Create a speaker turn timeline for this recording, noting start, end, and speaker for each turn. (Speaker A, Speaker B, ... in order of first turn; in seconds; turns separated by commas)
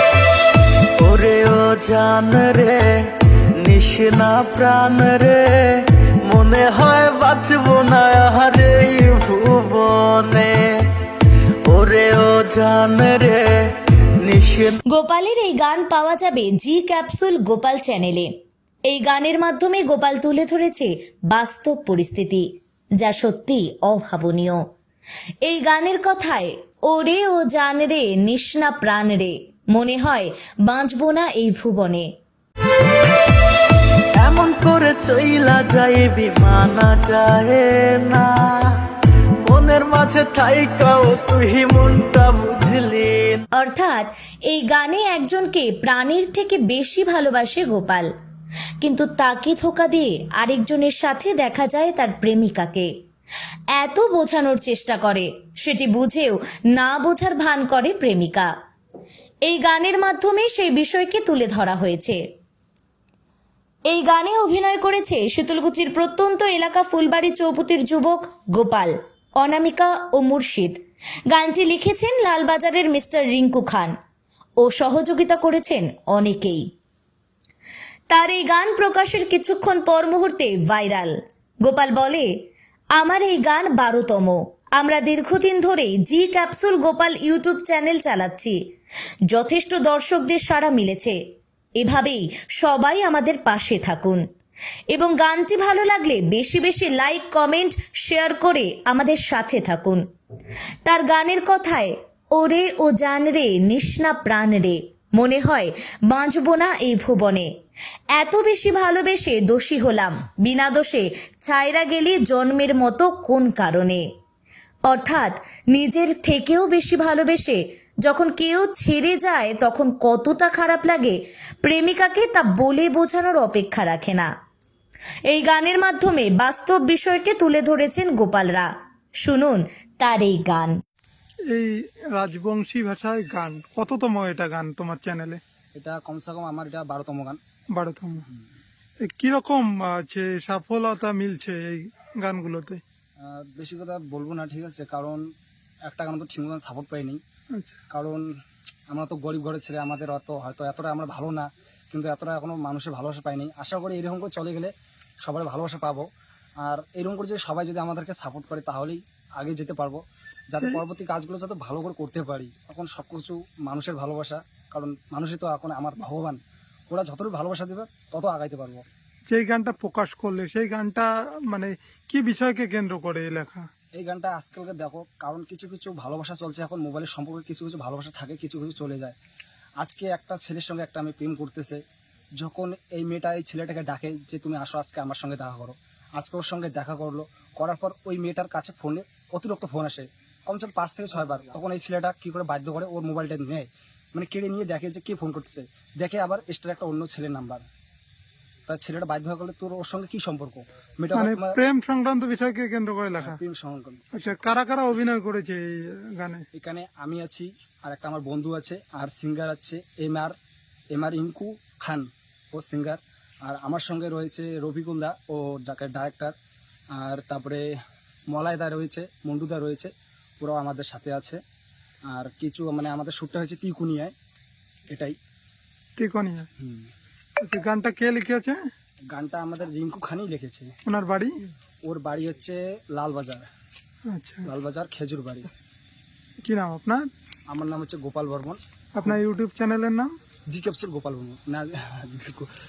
Speaker A: 1.0-11.1, Speaker A: 11.7-14.8, Speaker B: 14.9-18.3, Speaker B: 18.9-22.4, Speaker B: 23.0-24.6, Speaker B: 25.4-32.1, Speaker A: 34.1-38.8, Speaker A: 39.5-43.4, Speaker B: 43.6-48.1, Speaker B: 48.8-52.9, Speaker B: 53.7-58.5, Speaker B: 59.5-62.2, Speaker B: 63.9-70.8, Speaker B: 71.3-73.9, Speaker B: 74.6-76.6, Speaker B: 78.1-81.1, Speaker B: 81.6-82.3, Speaker B: 83.0-88.6, Speaker B: 89.3-91.2, Speaker B: 91.8-94.2, Speaker B: 94.9-100.0, Speaker B: 100.8-107.5, Speaker B: 108.1-114.0, Speaker B: 114.9-124.3, Speaker B: 125.3-128.7, Speaker B: 129.2-130.7, Speaker C: 131.5-135.4, Speaker D: 135.7-137.4, Speaker C: 137.7-138.2, Speaker C: 139.0-142.8, Speaker D: 143.2-145.2, Speaker D: 145.9-147.2, Speaker D: 147.9-148.2, Speaker D: 148.9-154.7, Speaker D: 155.2-156.1, Speaker D: 156.6-168.8, Speaker C: 169.3-173.7, Speaker D: 174.0-179.2, Speaker D: 179.8-181.8, Speaker D: 182.4-197.6, Speaker D: 198.7-201.6, Speaker C: 201.1-203.4, Speaker D: 203.2-204.0, Speaker C: 204.1-206.4, Speaker D: 206.5-210.3, Speaker D: 210.9-216.3, Speaker D: 217.0-217.6, Speaker D: 218.3-221.4, Speaker D: 222.1-224.1, Speaker D: 224.9-225.2, Speaker C: 226.0-226.5, Speaker D: 226.6-226.9, Speaker C: 227.4-228.6, Speaker D: 229.1-230.7, Speaker C: 230.9-231.3, Speaker D: 231.8-233.5, Speaker C: 234.1-234.5, Speaker D: 234.4-235.5, Speaker C: 236.4-237.1, Speaker D: 237.5-239.2, Speaker C: 238.9-240.1, Speaker D: 240.5-242.5